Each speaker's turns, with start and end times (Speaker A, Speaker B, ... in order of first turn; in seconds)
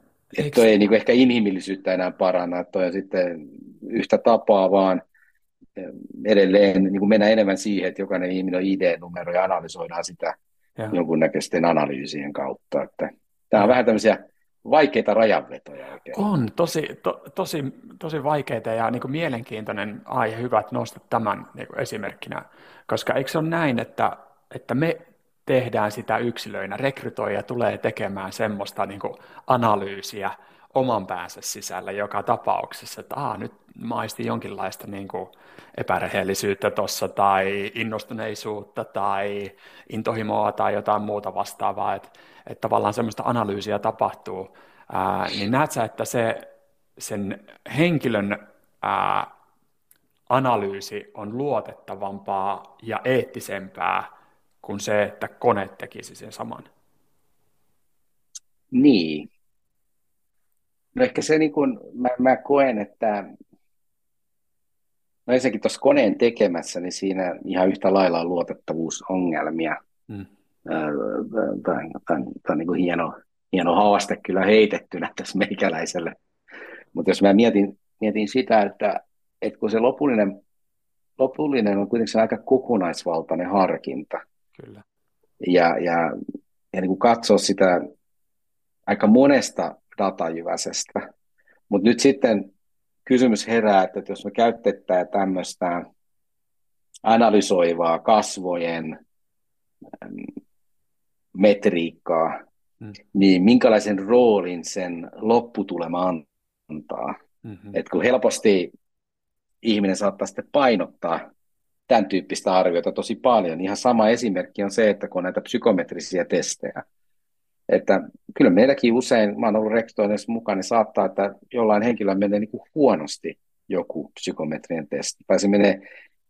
Speaker A: 0.3-5.0, 5.8-10.3, 10.9-16.2, 58.7-59.3, 60.9-63.3, 65.3-69.8, 70.7-76.2, 76.9-80.4, 81.2-84.2, 85.4-86.1, 86.7-87.9, 88.9-91.1, 91.7-92.5, 93.0-95.8, 97.0-99.0, 100.0-100.3, 101.3-102.4, 103.1-107.2, 107.7-108.7, 109.6-111.3, 111.9-116.8, 117.7-125.8
Speaker B: 0.4-0.7, 16.1-49.3, 50.3-54.1, 54.6-56.7, 84.6-84.8, 107.4-107.7